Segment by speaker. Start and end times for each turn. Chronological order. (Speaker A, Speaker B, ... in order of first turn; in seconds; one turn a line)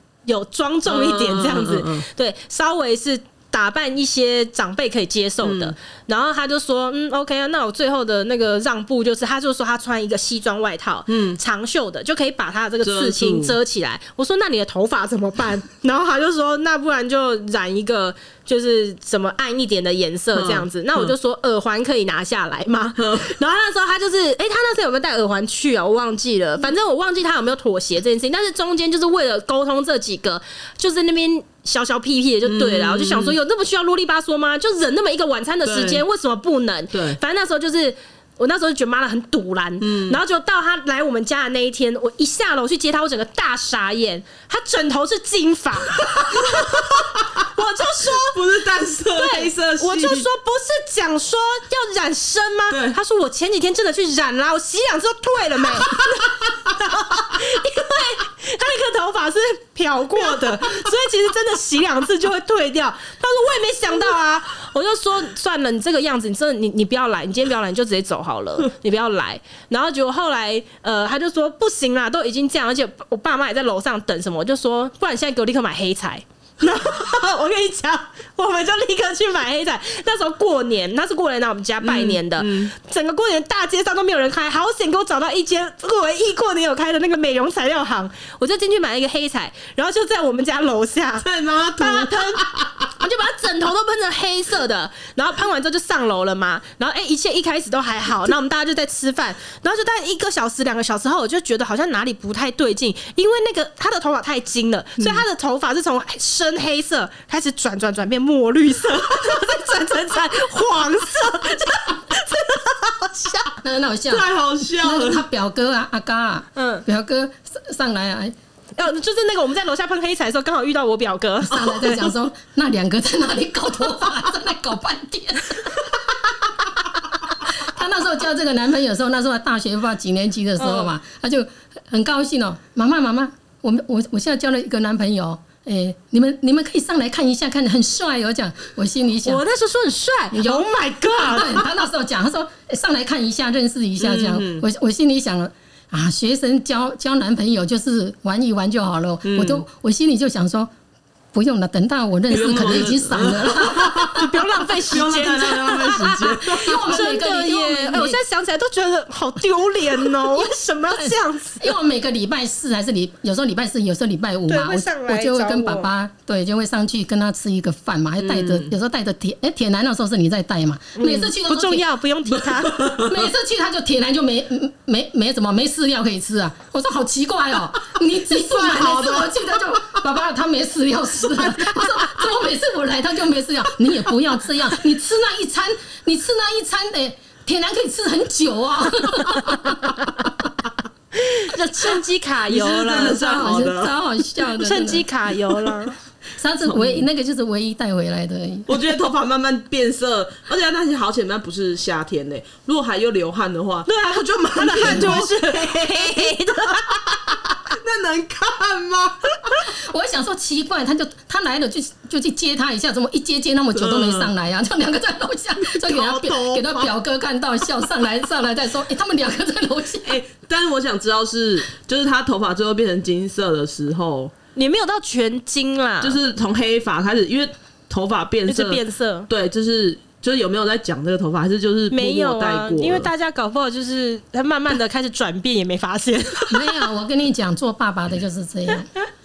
Speaker A: 0.3-46.9
Speaker B: 0.9-2.1
Speaker B: 5.4-5.8
Speaker B: 11.1-11.4
Speaker B: 12.8-13.6
Speaker B: 20.3-21.1
Speaker B: 23.0-23.3
Speaker B: 32.5-33.4
Speaker B: 35.6-36.0
Speaker B: 36.9-37.2
Speaker B: 39.8-40.2
Speaker B: 46.0-47.3
Speaker A: 47.5-48.4
Speaker B: 48.0-50.3
Speaker A: 49.1-92.5
Speaker B: 52.7-53.0
Speaker B: 55.9-56.5
Speaker B: 60.2-60.8
Speaker B: 81.8-82.7
Speaker B: 91.2-93.0
Speaker A: 93.0-113.5
Speaker B: 105.0-105.2
Speaker B: 109.1-109.4
Speaker C: 113.6-114.3
Speaker B: 114.1-115.2
Speaker C: 114.8-118.3
Speaker A: 116.6-116.8
Speaker A: 118.8-122.2
Speaker C: 121.5-125.8
Speaker C: 127.5-139.4
Speaker A: 130.6-130.9
Speaker A: 139.2-141.7
Speaker C: 140.3-150.7
Speaker B: 144.0-144.7
Speaker B: 149.2-149.7
Speaker C: 151.3-154.3
Speaker B: 152.3-157.0
Speaker A: 154.1-161.6
Speaker C: 156.5-158.2
Speaker C: 161.0-171.8
Speaker A: 164.5-165.9
Speaker B: 168.2-168.7
Speaker A: 171.0-173.0
Speaker B: 172.3-173.3
Speaker C: 173.0-190.0
Speaker A: 178.7-179.2
Speaker B: 178.8-179.2
Speaker A: 191.2-193.7
Speaker B: 192.5-193.9
Speaker C: 192.9-195.1
Speaker A: 194.6-196.0
Speaker C: 196.4-198.8
Speaker B: 196.7-197.1
Speaker B: 198.7-209.5
Speaker A: 203.9-207.2
Speaker C: 209.9-220.2
Speaker B: 213.8-214.3
Speaker B: 215.6-216.9
Speaker B: 220.1-224.3
Speaker A: 224.6-226.2
Speaker B: 226.0-233.1
Speaker A: 228.5-229.3
Speaker A: 231.9-236.8
Speaker C: 236.5-238.9